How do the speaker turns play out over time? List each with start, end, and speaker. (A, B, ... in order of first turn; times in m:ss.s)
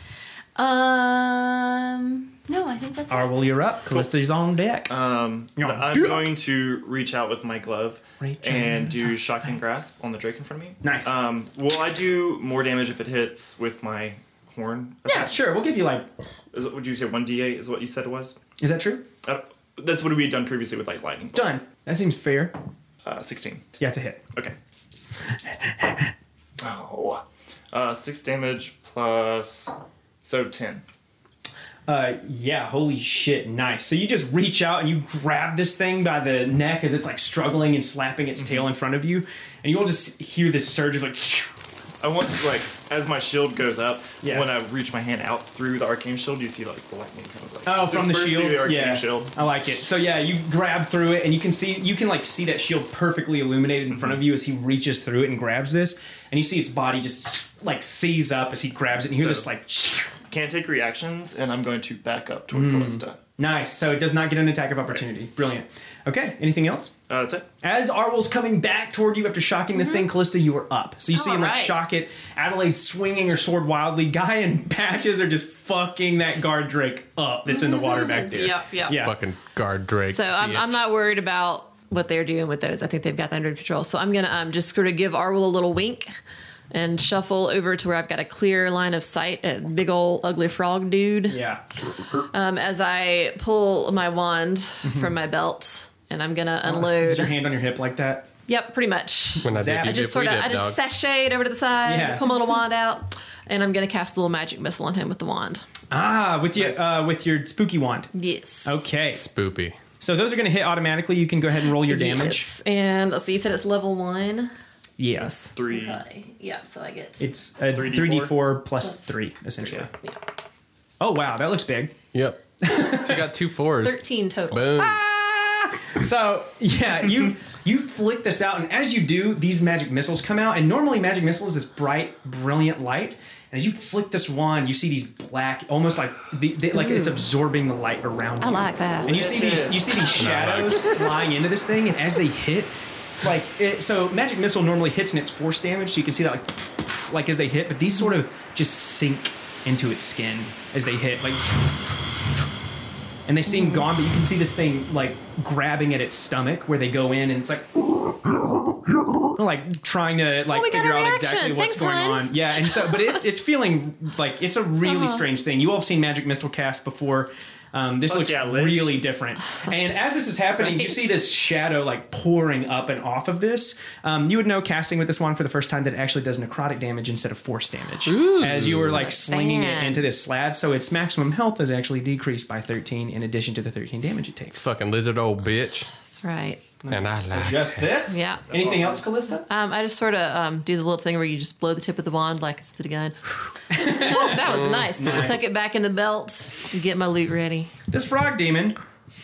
0:00.6-0:03.5 A
0:03.1-0:04.9 B
0:04.9-0:15.4 C
0:05.6-0:06.4 B
0:08.2-0:09.2 B
0:10.8-0:11.1 B
0:15.0-0:16.1 B
0:16.5-0:18.4 C
0:18.6-0:19.1 B
0:19.2-0:21.5 C
0:21.3-0:22.6 B
0:23.0-0:23.6 C
0:23.8-0:24.2 B
0:25.4-0:26.1 B
0:26.6-0:29.7 C
0:30.2-0:30.8 C
0:31.9-0:41.5 B
0:42.0-0:49.3 C
0:44.2-0:44.5 B
0:47.6-1:00.1 B
0:59.1-0:59.5 C
1:00.3-1:03.2 C
1:02.5-1:06.9 B
1:07.1-1:07.5 C
1:07.6-1:19.2 B
1:11.2-1:11.6 D
1:11.3-1:11.7 A
1:17.9-1:19.0 D
1:18.9-1:20.8 E
1:20.1-1:26.1 D
1:26.7-1:31.4 D
1:31.3-1:31.6 B
1:32.3-1:37.4 D
1:34.8-1:35.1 B
1:36.6-1:38.3 B
1:38.5-1:45.6 D
1:39.4-1:40.8 E
1:39.4-1:40.1 B
1:41.8-1:42.3 B
1:45.9-1:48.1 B
1:48.1-1:48.8 D
1:48.6-1:49.2 B
1:49.1-1:49.8 E
1:50.0-1:52.5 B
1:51.8-1:54.5 D
1:55.0-1:55.3 B
1:55.2-1:57.3 D
1:55.5-1:56.0 C
1:57.2-1:59.9 B
1:57.7-1:58.4 C
2:01.0-2:01.9 B
2:02.1-2:05.0 E
2:02.6-2:03.3 B
2:03.8-2:04.8 D
2:04.8-2:31.7 B
2:16.7-2:17.2 D
2:18.4-2:19.2 D
2:19.0-2:20.7 C
2:20.2-2:20.9 E
2:33.2-2:38.2 B
2:39.2-3:04.7 B
2:40.4-2:42.7 D
2:44.9-2:45.2 D
2:48.0-2:49.0 C
2:50.6-2:51.0 D
2:58.0-2:59.0 E
2:58.9-3:00.1 D
3:04.6-3:05.9 E
3:06.0-3:06.6 D
3:06.8-3:09.4 B
3:06.9-3:07.9 E
3:08.1-3:08.4 D
3:08.4-3:09.0 C
3:09.5-3:17.7 D
3:13.7-3:15.4 B
3:14.4-3:15.4 E
3:17.9-3:18.8 B